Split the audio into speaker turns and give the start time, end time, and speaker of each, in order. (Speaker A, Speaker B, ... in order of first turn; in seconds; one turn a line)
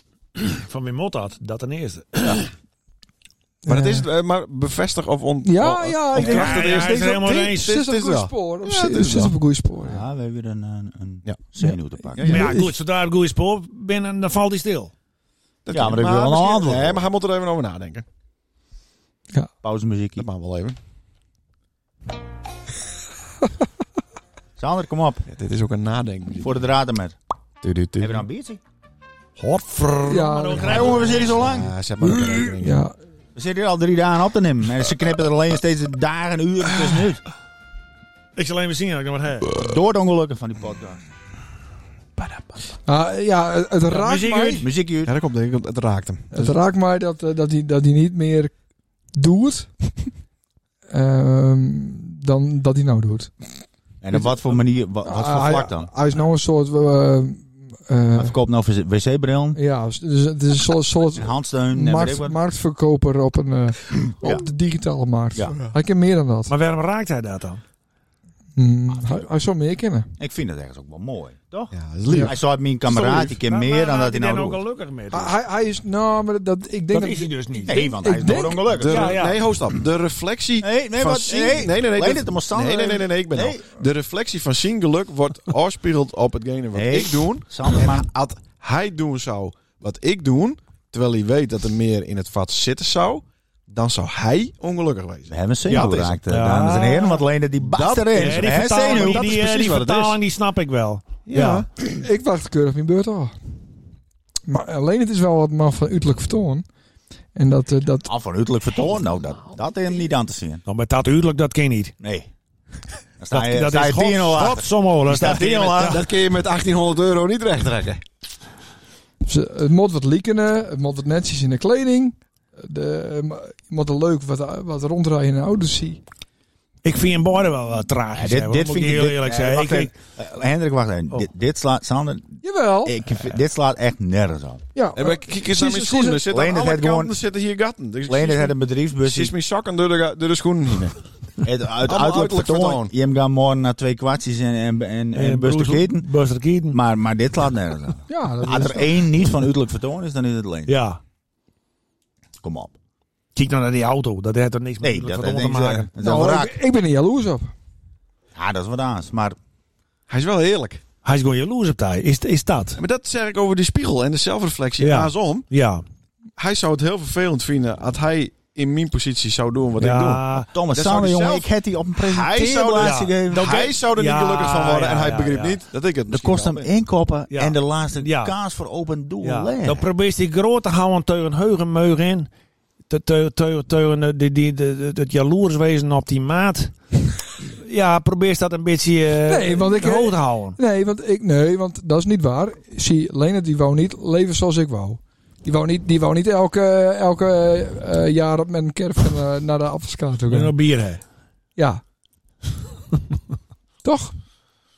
Speaker A: 0.3-2.5
Speaker B: 3.6-4.1
Speaker C: 3.7-9.4
Speaker B: 5.4-7.0
Speaker A: 6.2-7.7
Speaker B: 7.5-10.0
Speaker D: 9.8-12.6
Speaker B: 11.6-12.7
Speaker A: 12.2-14.9
Speaker C: 15.6-18.1
Speaker D: 15.7-17.0
Speaker D: 19.6-20.3
Speaker C: 20.1-20.8
Speaker D: 24.6-25.3
Speaker C: 25.3-26.7
Speaker D: 26.4-27.1
Speaker C: 27.6-28.2
Speaker D: 28.0-28.6
Speaker A: 29.4-31.4
Speaker B: 30.1-31.1
Speaker D: 30.6-31.7
Speaker C: 31.0-32.9
Speaker B: 32.6-32.9
Speaker D: 33.3-37.2
Speaker A: 38.4-39.5
Speaker D: 39.5-41.0
Speaker B: 42.9-44.7
Speaker A: 43.9-44.7
Speaker D: 44.6-45.1
Speaker C: 45.0-46.6
Speaker B: 46.3-48.5
Speaker B: 49.1-49.9
Speaker B: 50.9-53.3
Speaker D: 54.0-55.9
Speaker B: 55.0-58.4
Speaker D: 58.1-59.6
Speaker B: 59.5-66.5
Speaker D: 61.1-62.4
Speaker D: 64.2-64.5
Speaker A: 66.5-67.6
Speaker B: 68.5-70.1
Speaker D: 68.9-69.2
Speaker D: 70.2-74.6
Speaker C: 71.7-72.3
Speaker B: 72.1-72.3
Speaker C: 72.9-73.3
Speaker A: 72.9-75.3
Speaker B: 75.1-78.7
Speaker A: 76.9-77.8
Speaker D: 77.6-79.2
Speaker C: 78.7-96.2
Speaker A: 78.8-79.4
Speaker D: 80.6-83.6
Speaker D: 86.7-88.0
Speaker D: 95.3-99.4
Speaker A: 95.7-97.2
Speaker C: 97.6-100.2
Speaker A: 98.1-101.7
Speaker C: 101.3-101.7
Speaker B: 101.9-103.3
Speaker B: 104.5-106.6
Speaker B: 107.3-108.1
Speaker D: 108.1-110.6
Speaker A: 110.7-111.9
Speaker D: 112.0-112.3
Speaker D: 113.2-116.0
Speaker A: 113.3-116.0
Speaker C: 115.8-118.0
Speaker B: 119.2-126.0
Speaker A: 126.8-129.9
Speaker D: 128.1-134.6
Speaker B: 132.4-132.9
Speaker B: 134.7-136.2
Speaker C: 134.9-141.0
Speaker D: 136.3-137.1
Speaker D: 138.1-139.3
Speaker D: 141.4-146.1
Speaker C: 141.8-142.9
Speaker A: 145.1-146.8
Speaker D: 146.7-150.7
Speaker B: 148.1-149.0
Speaker A: 150.7-151.0
Speaker D: 152.4-152.7
Speaker A: 153.3-155.9
Speaker D: 154.8-156.6
Speaker B: 156.0-157.5
Speaker D: 158.3-159.4
Speaker C: 160.1-160.8
Speaker A: 161.0-162.8
Speaker C: 162.8-165.4
Speaker A: 164.8-165.8
Speaker C: 166.4-176.7
Speaker A: 169.8-170.5
Speaker D: 170.5-173.7
Speaker A: 172.8-175.6
Speaker D: 176.1-179.8
Speaker A: 177.3-178.3
Speaker A: 179.2-182.3
Speaker A: 182.9-186.7
Speaker A: 187.4-190.6
Speaker B: 189.2-200.5
Speaker A: 200.3-201.0
Speaker B: 201.6-201.8
Speaker B: 203.8-204.1